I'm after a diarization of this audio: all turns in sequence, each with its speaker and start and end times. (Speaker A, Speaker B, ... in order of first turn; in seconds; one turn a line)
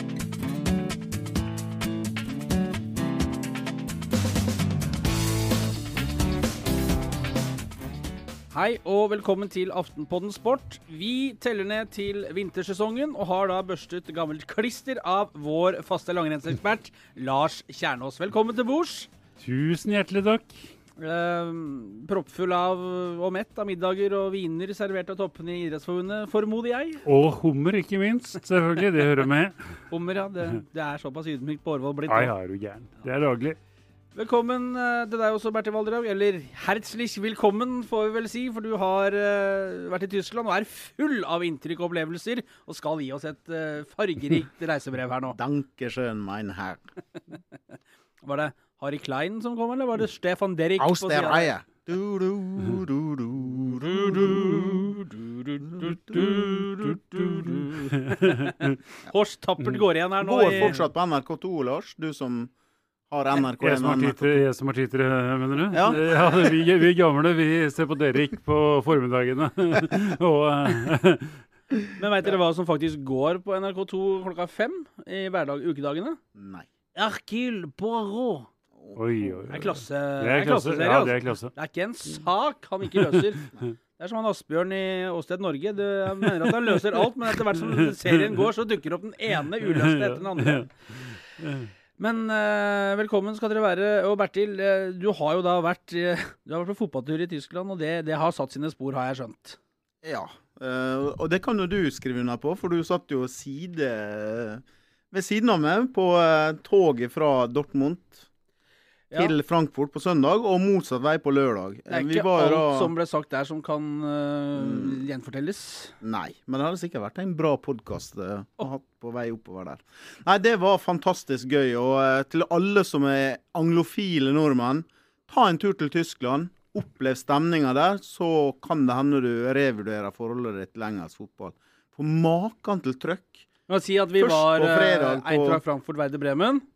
Speaker A: 8.5-19.1
Speaker B: 19.4-20.7
Speaker A: 21.0-27.0
Speaker B: 27.1-29.6
Speaker A: 29.9-32.3
Speaker B: 32.1-33.6
Speaker A: 34.1-45.4
Speaker C: 45.3-46.8
Speaker A: 48.2-51.5
Speaker C: 50.8-54.8
Speaker A: 53.8-60.7
Speaker C: 55.6-56.2
Speaker B: 58.1-58.7
Speaker C: 60.2-62.5
Speaker C: 63.1-64.4
Speaker B: 63.6-71.4
Speaker C: 65.7-66.0
Speaker A: 72.0-76.2
Speaker C: 76.3-76.7
Speaker A: 76.9-78.5
Speaker C: 78.8-79.4
Speaker B: 79.0-81.5
Speaker A: 79.5-90.7
Speaker B: 89.7-90.7
Speaker B: 91.4-91.7
Speaker A: 92.0-99.6
Speaker C: 100.0-108.3
Speaker C: 109.1-112.9
Speaker A: 111.9-115.9
Speaker C: 114.6-115.0
Speaker C: 116.0-133.5
Speaker A: 133.7-136.7
Speaker C: 134.2-135.6